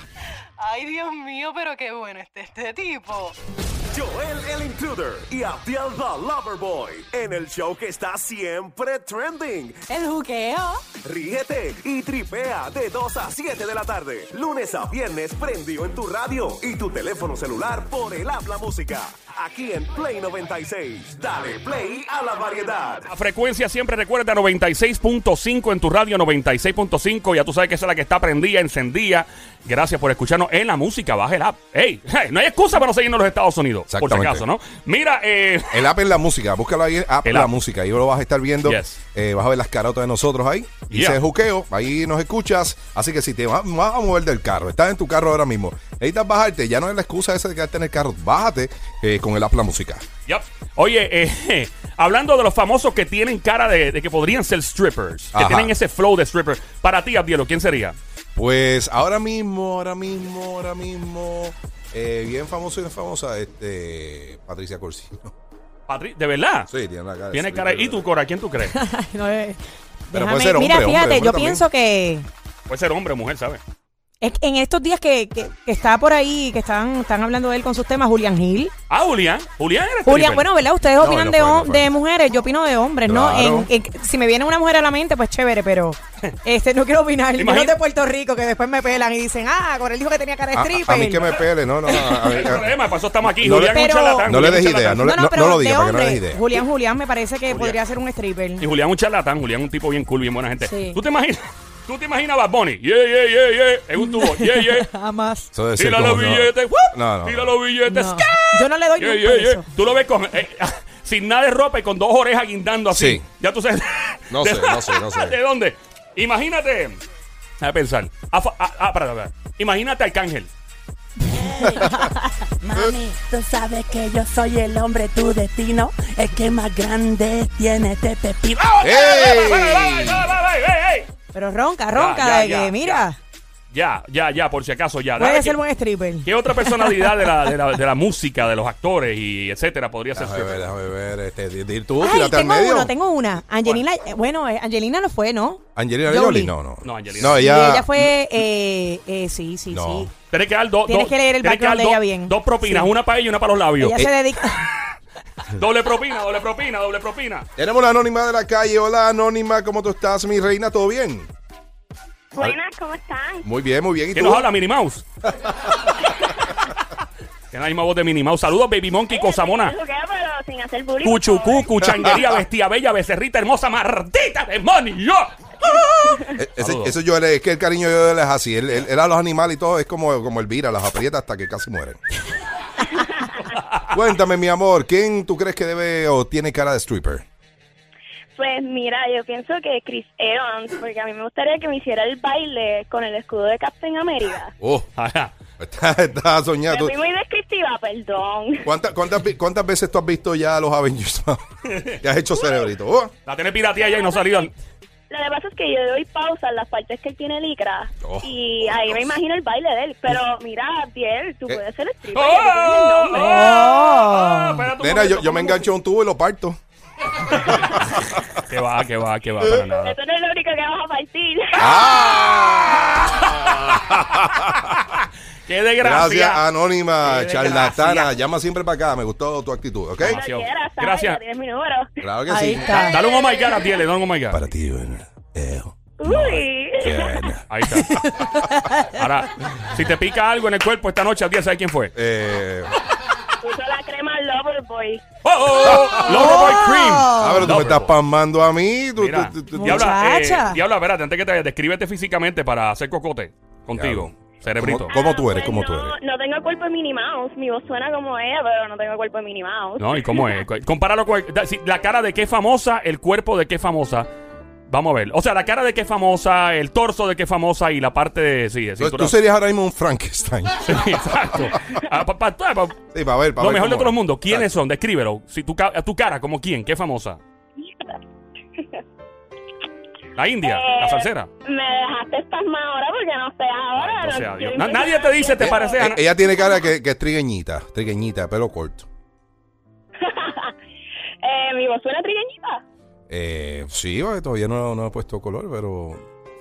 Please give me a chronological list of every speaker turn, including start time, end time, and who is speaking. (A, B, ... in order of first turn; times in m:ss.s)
0:00.6-0:03.4 A
0:03.9-0:09.8 B
0:09.9-0:10.8 A
0:11.0-0:23.1 B
0:23.1-0:35.9 C
0:33.9-0:34.4 D
0:35.7-0:50.0 D
0:37.2-0:37.5 C
0:38.6-0:39.0 C
0:40.9-0:41.2 C
0:50.3-0:58.0 C
0:55.3-0:55.8 D
0:58.4-1:05.3 D
1:05.9-1:06.7 C
1:06.7-1:08.0 D
1:07.3-1:08.7 C
1:08.6-1:09.6 E
1:10.1-1:12.3 E
1:10.1-1:11.7 D
1:12.7-1:13.6 C
1:14.2-1:18.7 E
1:18.9-1:20.4 C
1:20.0-1:31.4 E
1:21.0-1:21.9 D
1:23.1-1:23.7 D
1:27.4-1:27.8 C
1:30.5-1:32.7 D
1:31.9-1:35.0 C
1:33.4-1:36.4 D
1:33.5-1:38.6 E
1:37.5-1:37.8 C
1:38.6-1:44.9 C
1:40.6-1:41.0 E
1:44.0-1:45.5 E
1:45.5-1:47.6 D
1:45.8-1:57.0 C
1:47.9-1:49.7 E
1:52.9-1:53.2 D
1:54.3-1:55.4 D
1:57.6-2:00.5 C
2:01.3-2:01.9 F
2:01.7-2:02.2 E
2:02.6-2:08.8 F
2:08.8-2:11.1 C
2:08.8-2:10.3 D
2:11.3-2:13.2 E
2:11.9-2:13.1 C
2:13.7-2:15.6 C
2:15.2-2:17.4 E
2:16.2-2:20.7 C
2:20.1-2:22.9 D
2:22.0-2:26.5 E
2:25.8-2:28.0 D
2:26.8-2:27.4 C
2:27.4-2:30.1 E
2:29.7-2:30.1 D
2:30.3-2:34.0 C
2:30.9-2:32.9 E
2:33.8-2:34.7 E
2:35.5-2:37.5 C
2:37.6-2:41.3 D
2:42.3-2:43.5 G
2:43.4-2:44.5 D
2:44.1-2:45.1 C
2:47.5-2:49.8 C
2:49.1-2:52.2 G
2:51.0-2:55.9 C
2:56.3-3:02.0 D
2:56.6-2:57.0 C
3:03.9-3:07.2 D
3:08.4-3:14.5 G
3:14.6-3:14.9 D
3:15.0-3:15.3 C
3:15.6-3:16.9 D
3:16.7-3:18.7 G
3:18.6-3:23.1 D
3:21.7-3:22.0 C
3:22.4-3:22.7 G
3:23.3-3:24.5 C
3:23.8-3:24.5 G
3:25.1-3:33.4 G
3:28.0-3:29.2 D
3:32.1-3:35.6 C
3:33.2-3:34.7 E
3:34.8-3:36.6 D
3:37.3-3:40.0 C
3:37.5-3:38.2 D
3:39.8-3:42.4 G
3:41.6-3:44.3 D
3:43.0-3:46.4 C
3:45.8-3:50.2 D
3:47.0-3:48.1 C
3:50.0-3:51.2 C
3:50.0-3:51.9 G
3:52.0-3:53.0 D
3:52.3-3:53.0 E
3:52.7-3:54.4 C
3:53.0-3:53.8 G
3:54.3-3:57.4 D
3:56.0-3:57.2 G
3:56.1-3:56.4 C
3:57.5-3:58.0 C
3:57.8-3:59.0 E
3:59.0-4:01.9 C
4:02.0-4:02.7 D
4:03.4-4:05.0 G
4:05.2-4:08.0 C
4:05.9-4:07.6 E
4:07.2-4:09.9 D
4:09.0-4:15.0 C
4:09.5-4:10.6 E
4:13.8-4:16.0 D
4:14.9-4:20.4 G
4:19.8-4:24.1 C
4:24.7-4:29.2 C
4:28.8-4:31.5 D
4:30.6-4:32.8 C
4:32.9-4:34.6 D
4:33.4-4:37.2 C
4:37.6-4:38.0 G
4:40.2-4:41.3 C
4:40.4-4:45.8 G
4:43.8-4:46.0 C
4:45.4-4:48.9 D
4:50.0-4:50.5 G
4:51.2-4:52.6 G
4:53.1-4:56.0 D